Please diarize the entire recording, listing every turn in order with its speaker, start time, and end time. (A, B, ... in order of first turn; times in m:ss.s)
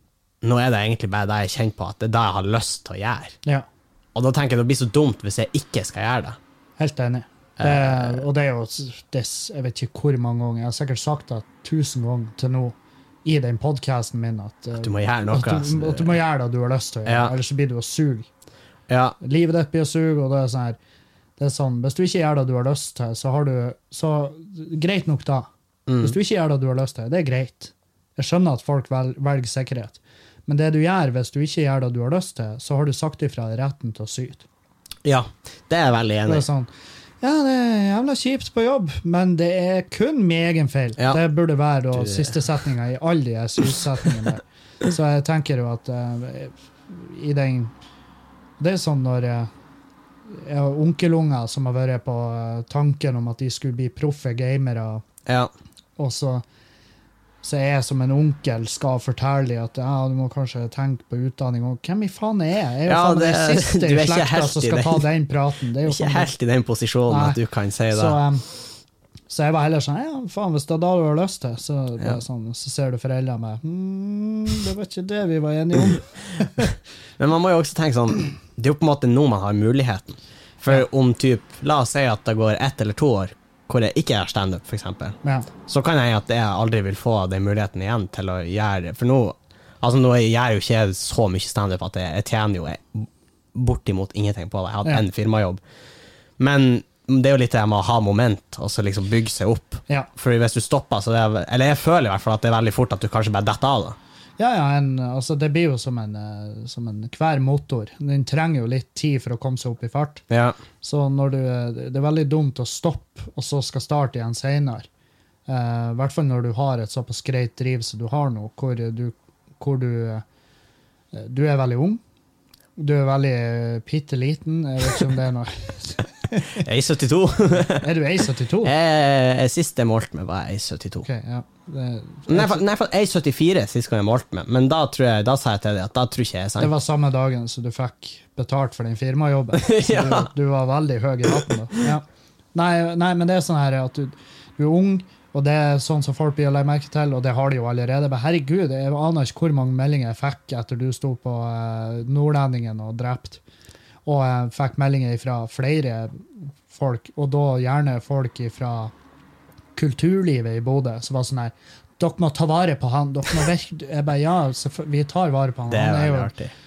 0:00.4-0:03.4 A
0:04.2-0:06.4 A
0:06.8-0:18.3 B
0:07.6-0:08.2 A
0:14.8-0:16.2 A
0:17.1-0:17.3 A
0:18.9-0:19.2 A
0:19.2-0:20.8 B
0:21.4-0:25.5 B
0:25.9-0:26.2 A
0:26.0-0:34.5 B
0:35.0-0:36.4 A
0:36.3-0:36.7 B
0:37.2-0:47.7 B
0:42.0-0:42.4 A
0:48.6-0:49.5 B
0:50.3-0:55.0 B
0:55.3-0:55.5 A
0:56.0-0:56.4 B
0:57.4-1:06.3 B
1:02.9-1:05.0 A
1:05.9-1:08.2 A
1:07.1-1:07.4 B
1:07.9-1:08.5 B
1:09.3-1:16.7 B
1:16.6-1:35.6 A
1:25.2-1:25.5 B
1:36.4-1:44.0 A
1:44.4-1:50.2 B
1:50.3-1:50.6 A
1:50.8-1:54.9 B
1:55.5-2:00.2 B
2:01.1-2:02.0 B
2:02.8-2:06.6 B
2:06.6-2:07.8 A
2:07.8-2:08.7 B
2:08.6-2:11.1 A
2:11.0-2:12.6 B
2:12.3-2:16.7 A
2:16.6-2:33.4 B
2:19.5-2:20.3 A
2:34.0-2:38.9 B
2:39.8-2:46.3 B
2:45.7-2:46.5 A